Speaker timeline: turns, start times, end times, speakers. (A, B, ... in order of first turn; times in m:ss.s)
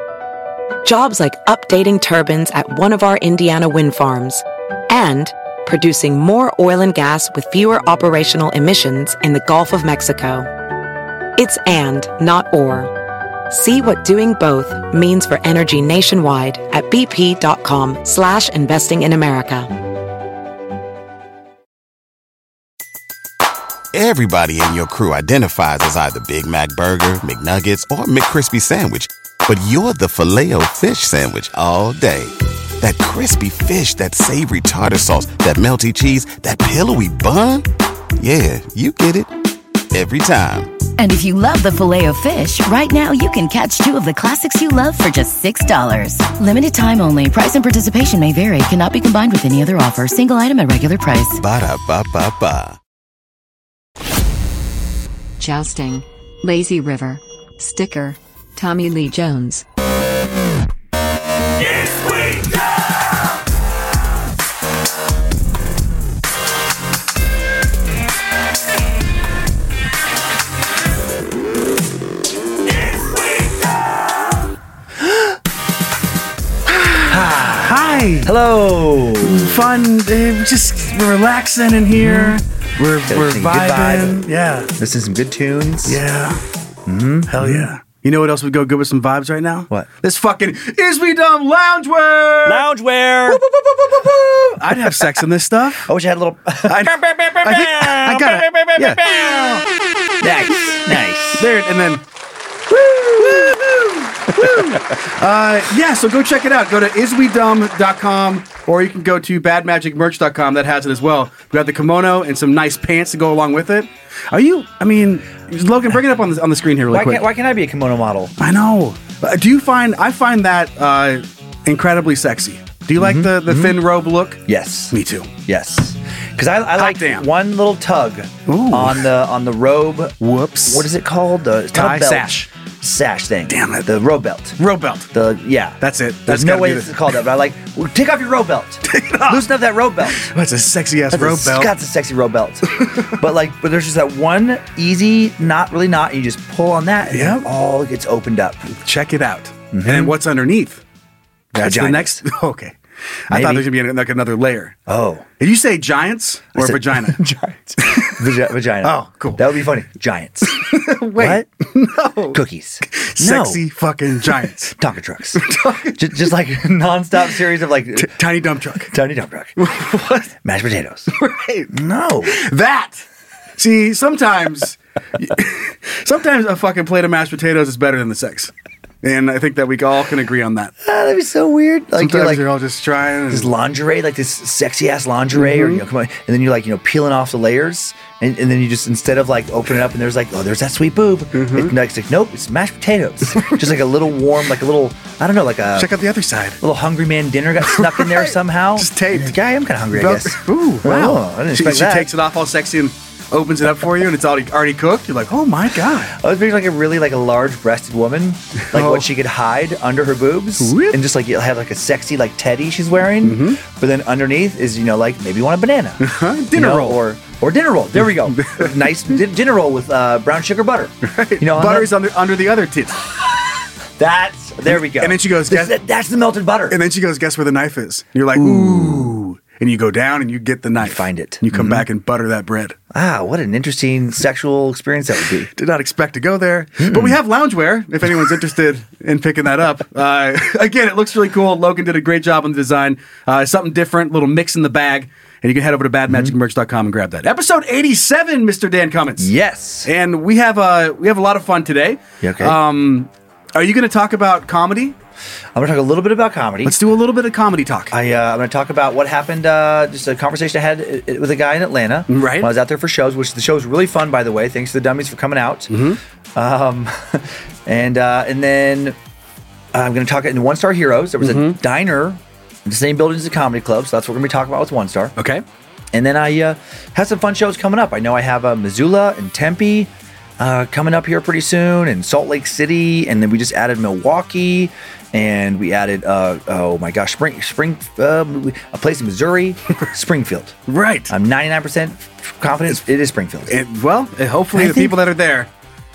0:00.8-0:10.5 A
0:11.4-0:12.9 A
0:13.5-0:19.7 A
0:23.9-0:39.3 B
0:39.9-0:40.8 B
0:41.0-0:51.4 C
0:51.4-0:52.8 B
0:55.4-0:59.6 D
1:01.8-1:02.4 D
1:16.7-1:18.3 E
1:17.1-1:19.7 F
1:19.2-1:24.7 E
1:22.0-1:22.4 F
1:23.1-1:26.0 F
1:25.8-1:26.4 E
1:26.9-1:27.7 F
1:27.3-1:32.7 E
1:32.4-1:33.4 F
1:33.3-1:35.9 E
1:34.0-1:35.1 F
1:35.9-1:39.6 F
1:36.7-1:39.0 E
1:40.2-1:41.5 F
1:41.4-1:42.0 E
1:42.7-1:43.6 F
1:43.2-1:57.2 E
1:44.4-1:45.0 F
1:56.9-1:58.4 F
1:58.4-2:04.4 E
2:03.0-2:03.8 F
2:04.5-2:14.6 F
2:04.9-2:05.3 E
2:06.8-2:07.3 E
2:08.5-2:09.1 E
2:10.2-2:10.9 E
2:11.7-2:12.5 E
2:13.5-2:13.9 E
2:14.6-2:15.1 E
2:15.1-2:20.3 F
2:15.8-2:16.9 E
2:18.8-2:19.5 E
2:20.1-2:21.7 E
2:21.1-2:28.7 F
2:22.8-2:23.1 E
2:27.1-2:27.5 E
2:28.8-2:30.8 E
2:29.7-2:30.2 F
2:31.5-2:32.2 F
2:31.6-2:32.8 E
2:33.3-2:34.8 E
2:33.3-2:33.7 F
2:34.9-2:35.3 F
2:35.4-2:37.2 E
2:36.6-2:41.5 F
2:37.8-2:38.3 E
2:38.8-2:39.5 E
2:40.5-2:44.8 E
2:42.3-2:43.6 F
2:44.7-2:48.1 F
2:45.4-2:46.3 E
2:48.0-2:48.9 E
2:48.9-2:49.6 F
2:49.6-2:50.3 E
2:50.4-2:51.1 F
2:51.1-2:51.7 E
2:51.7-2:52.4 F
2:52.3-2:53.0 E
2:53.6-2:58.5 E
2:59.0-3:00.7 E
3:00.8-3:02.5 F
3:02.0-3:03.5 E
3:03.3-3:15.9 F
3:05.4-3:05.8 E
3:11.3-3:11.7 E
3:13.3-3:13.6 E
3:15.8-3:16.6 E
3:16.6-3:22.1 F
3:17.7-3:19.4 E
3:19.9-3:26.2 E
3:26.1-3:41.9 F
3:28.7-3:29.1 E
3:30.6-3:31.0 E
3:33.2-3:33.6 E
3:36.0-3:37.0 E
3:38.0-3:38.9 E
3:41.0-3:43.0 E
3:44.0-3:46.8 F
3:44.7-3:45.8 E
3:46.7-3:52.8 E
3:48.4-3:49.2 F
3:50.8-3:51.8 F
3:52.9-3:55.5 F
3:55.6-4:09.3 E
3:56.8-3:57.2 F
4:06.1-4:06.4 F
4:09.2-4:09.9 F
4:09.8-4:15.0 E
4:12.2-4:12.6 F
4:15.6-4:16.8 F
4:16.6-4:17.9 E
4:17.9-4:25.8 F
4:22.1-4:22.5 E
4:25.7-4:26.0 E
4:26.4-4:29.0 F
4:29.7-4:35.2 F
4:31.2-4:31.6 E
4:35.2-4:35.4 E
4:35.9-4:50.6 F
4:50.7-4:51.1 E
4:51.1-4:53.6 F
4:53.5-4:55.5 E
4:54.5-4:55.0 F